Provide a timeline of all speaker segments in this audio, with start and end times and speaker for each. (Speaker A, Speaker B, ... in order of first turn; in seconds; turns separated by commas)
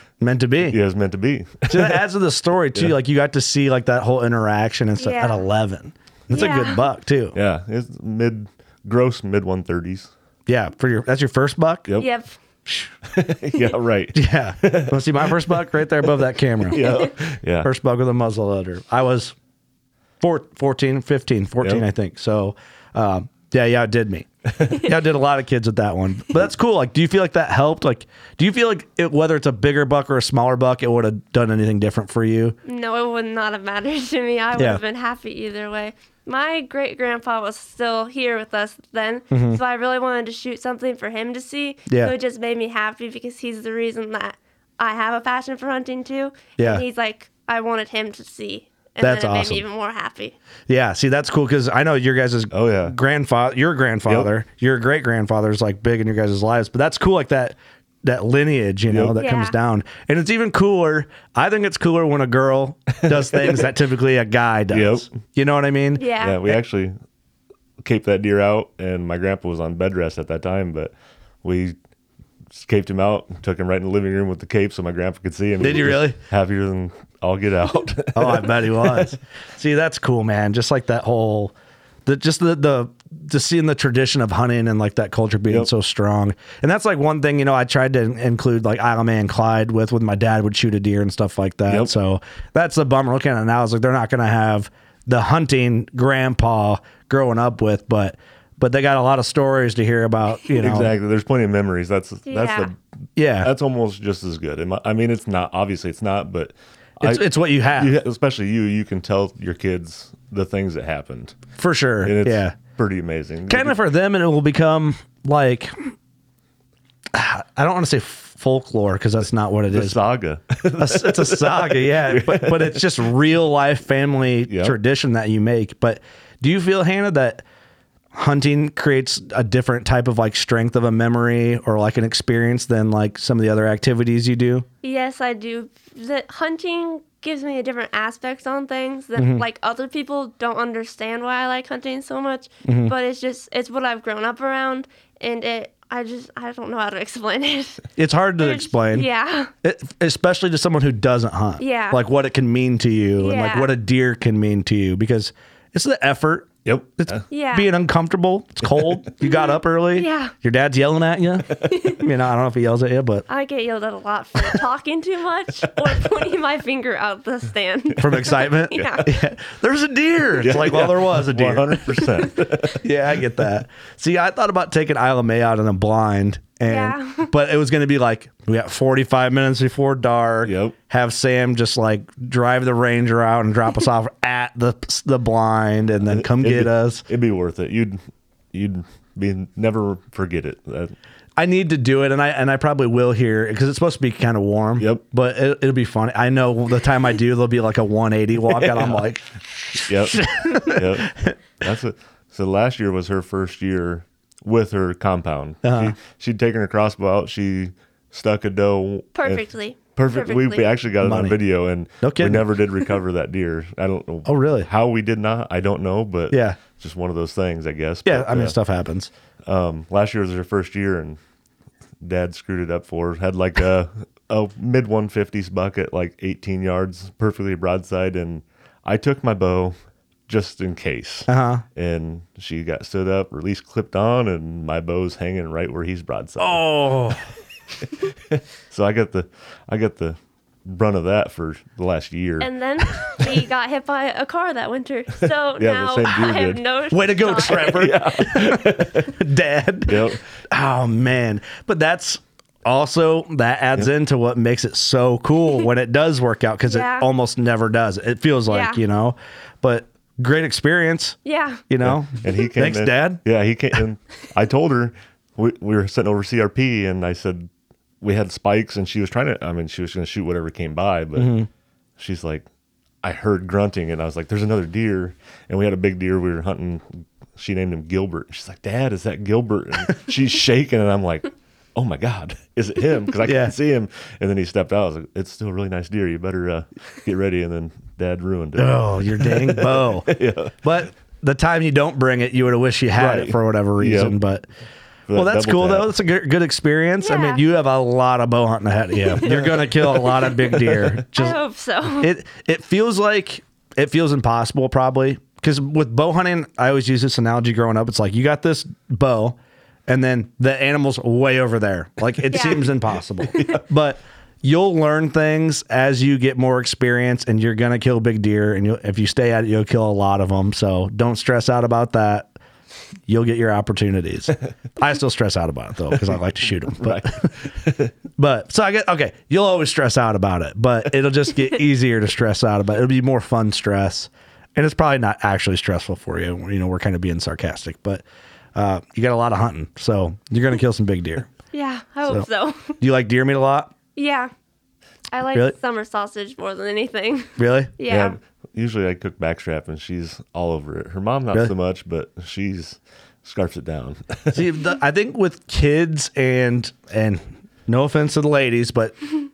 Speaker A: 0.2-0.8, Speaker B: 0.7-2.0, Speaker A: 1.7-7.4, Speaker C: 5.0-5.5, Speaker C: 6.3-6.9, Speaker B: 7.3-10.1, Speaker A: 10.5-11.9, Speaker C: 12.0-12.4, Speaker B: 13.1-15.6, Speaker A: 14.1-16.8, Speaker B: 16.7-17.7, Speaker C: 16.8-17.1, Speaker A: 17.6-19.4, Speaker A: 20.2-32.6, Speaker C: 32.6-50.4, Speaker A: 34.6-34.8, Speaker A: 39.3-39.6, Speaker A: 41.9-42.1, Speaker A: 46.6-46.8, Speaker A: 49.0-49.6, Speaker A: 50.7-66.0, Speaker B: 52.5-53.0, Speaker B: 58.9-59.1, Speaker C: 59.2-59.6, Speaker B: 63.1-63.7, Speaker B: 64.7-65.1, Speaker C: 66.0-66.4, Speaker B: 66.2-67.0, Speaker B: 67.8-71.8, Speaker B: 72.5-79.2, Speaker A: 75.6-76.2, Speaker A: 78.1-81.5, Speaker A: 82.1-100.9, Speaker B: 100.6-102.8, Speaker C: 102.3-102.7, Speaker A: 103.2-103.5, Speaker B: 103.4-111.4, Speaker A: 107.0-107.9, Speaker A: 111.6-112.5, Speaker B: 112.0-113.8, Speaker A: 113.5-115.9, Speaker A: 117.1-120.0, Speaker B: 119.7-123.0, Speaker A: 120.8-127.4, Speaker B: 124.5-124.8, Speaker A: 128.1-134.7, Speaker C: 134.8-147.9, Speaker A: 139.2-139.4, Speaker A: 142.7-142.9, Speaker A: 148.0-149.1, Speaker C: 148.4-149.5, Speaker A: 149.6-163.2, Speaker C: 151.6-152.0, Speaker C: 153.2-153.7, Speaker B: 156.7-157.2, Speaker C: 157.3-157.7, Speaker C: 159.2-160.3, Speaker C: 161.6-162.0, Speaker C: 163.3-169.1, Speaker A: 168.0-171.8, Speaker B: 170.4-172.8, Speaker A: 172.8-187.1, Speaker C: 176.7-177.3, Speaker B: 180.4-180.8, Speaker B: 186.0-188.0, Speaker B: 188.5-190.9, Speaker A: 191.4-201.3, Speaker B: 198.5-199.0, Speaker B: 199.9-209.4, Speaker A: 205.6-205.9, Speaker C: 209.2-210.7, Speaker B: 210.0-218.6, Speaker A: 211.0-211.4, Speaker A: 212.0-212.5, Speaker A: 214.3-214.7, Speaker A: 216.3-216.6, Speaker A: 218.1-219.1, Speaker B: 219.4-221.2, Speaker B: 222.0-229.8, Speaker B: 230.3-236.7, Speaker A: 231.3-231.6, Speaker A: 236.4-237.2, Speaker B: 238.1-243.4, Speaker C: 242.4-247.9, Speaker B: 245.6-246.6, Speaker A: 246.9-261.2, Speaker B: 247.5-249.1, Speaker B: 249.9-250.2, Speaker C: 256.7-257.1, Speaker C: 258.5-258.8, Speaker C: 261.2-261.6, Speaker A: 261.7-263.2, Speaker B: 261.8-267.5, Speaker B: 268.0-271.4, Speaker A: 271.2-271.5, Speaker B: 272.0-272.5, Speaker B: 273.0-290.6, Speaker A: 283.2-283.5, Speaker A: 288.6-294.4, Speaker B: 293.0-294.2, Speaker B: 295.1-295.9, Speaker A: 295.1-301.4, Speaker C: 297.0-297.4, Speaker B: 299.3-300.1, Speaker C: 301.1-302.1, Speaker A: 302.0-322.3, Speaker C: 312.3-312.7, Speaker B: 313.3-313.6, Speaker A: 323.1-327.5, Speaker B: 326.1-327.9, Speaker A: 328.2-338.0, Speaker A: 338.6-341.3, Speaker C: 341.5-342.8, Speaker A: 342.8-343.7, Speaker C: 344.0-344.3, Speaker C: 345.1-348.2, Speaker A: 347.4-347.7, Speaker B: 347.9-354.6, Speaker A: 354.3-359.0